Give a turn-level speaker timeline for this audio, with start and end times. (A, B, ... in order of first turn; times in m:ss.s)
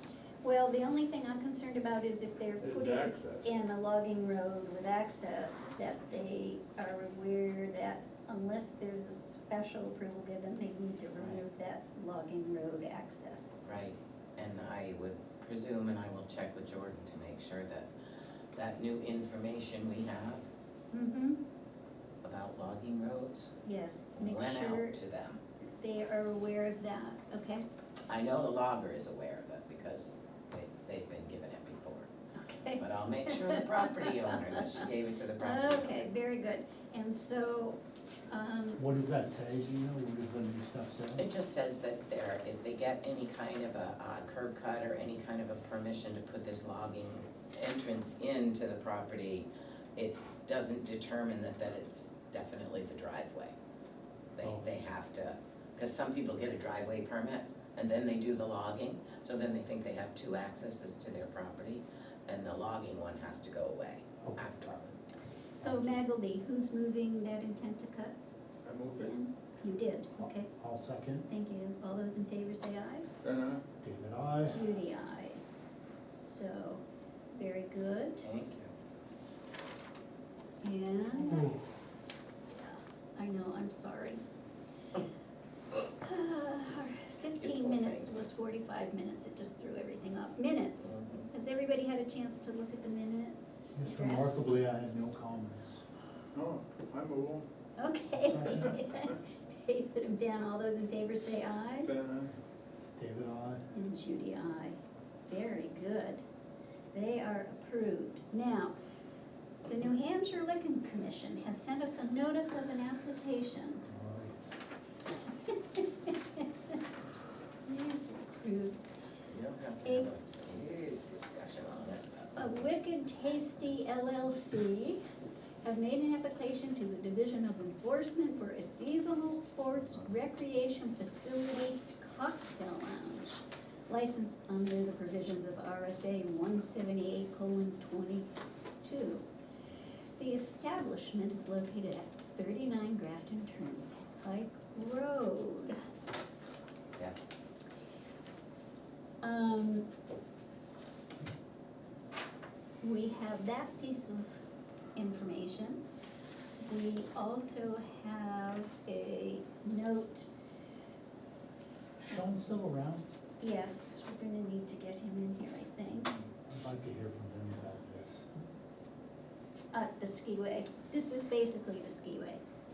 0:00.4-0:13.6 A
0:02.6-0:03.6 B
0:13.6-0:17.9 C
0:18.5-0:20.4 C
0:20.9-0:21.4 A
0:22.2-0:23.5 C
0:23.6-0:25.0 A
0:24.1-0:25.4 C
0:25.8-0:27.6 A
0:28.1-0:32.1 C
0:32.3-0:34.8 A
0:32.8-0:36.0 C
0:35.4-0:38.8 A
0:38.8-0:41.2 D
0:41.2-0:53.5 C
0:54.4-1:04.9 C
1:04.2-1:04.8 D
1:05.6-1:08.1 A
1:05.6-1:06.0 D
1:08.6-1:09.1 B
1:09.0-1:10.5 A
1:10.2-1:11.3 D
1:11.3-1:13.1 A
1:13.2-1:13.6 B
1:13.8-1:14.6 D
1:14.4-1:15.4 A
1:16.1-1:16.8 A
1:17.3-1:18.2 A
1:18.2-1:18.7 C
1:20.6-1:21.5 A
1:21.2-1:21.6 D
1:22.5-1:24.2 A
1:25.9-1:34.5 A
1:27.4-1:28.3 C
1:30.8-1:31.3 C
1:33.8-1:35.8 D
1:36.3-1:37.4 B
1:37.8-1:41.9 A
1:38.1-1:38.8 D
1:41.8-1:42.3 B
1:43.0-1:43.6 D
1:43.7-1:46.2 A
1:46.9-1:48.7 A
1:49.7-1:53.8 A
1:53.9-1:54.4 D
1:55.5-1:56.8 A
1:57.6-1:58.8 A
1:59.3-2:02.5 C
2:02.4-2:05.0 A
2:05.6-2:18.3 A
2:18.8-2:19.2 A
2:20.2-2:25.8 A
2:27.0-2:27.3 C
2:29.2-2:29.9 A
2:32.8-2:34.4 A
2:34.9-2:35.8 A
2:36.6-2:40.3 A
2:42.0-2:43.0 D
2:43.4-2:46.2 A
2:46.5-2:48.3 D
2:49.7-2:52.4 A